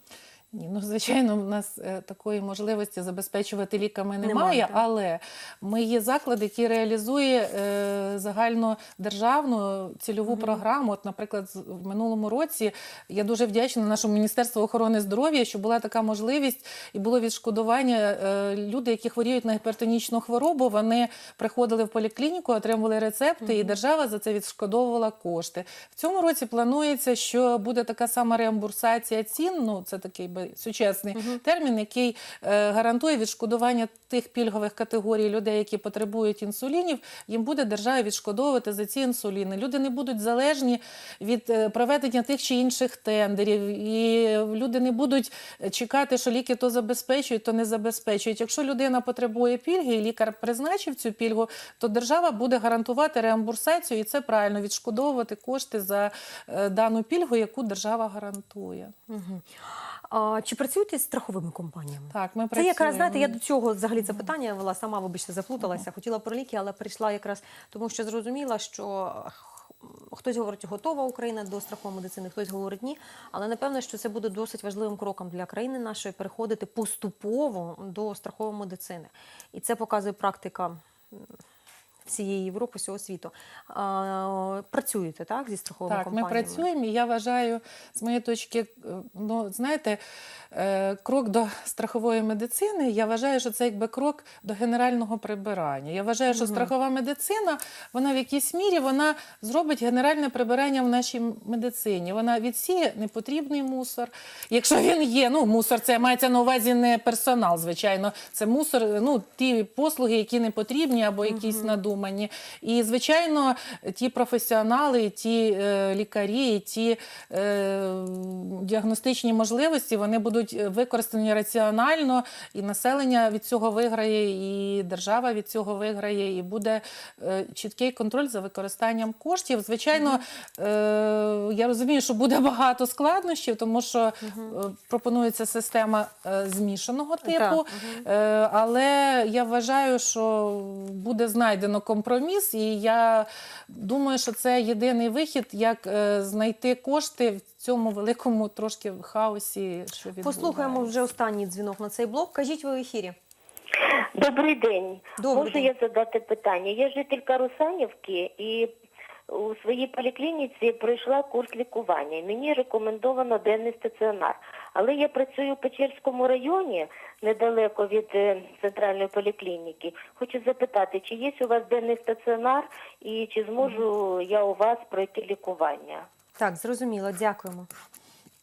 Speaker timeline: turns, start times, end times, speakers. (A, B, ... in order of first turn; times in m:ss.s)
0:00.5-0:58.9 A
0:04.2-0:04.8 B
0:10.3-0:10.6 B
0:23.4-0:23.8 B
0:31.2-0:31.4 B
0:59.1-0:59.5 B
1:00.1-1:21.2 B
1:02.1-1:03.4 A
1:22.0-1:26.7 B
1:25.9-1:30.0 A
1:30.5-2:30.9 A
1:36.3-1:36.7 B
1:51.2-1:51.8 B
2:10.0-2:10.2 B
2:14.2-2:14.6 B
2:17.2-2:18.1 B
2:30.2-2:33.2 B
2:33.8-2:38.7 C
2:35.2-2:35.7 B
2:39.3-2:56.1 C
2:56.4-2:57.7 B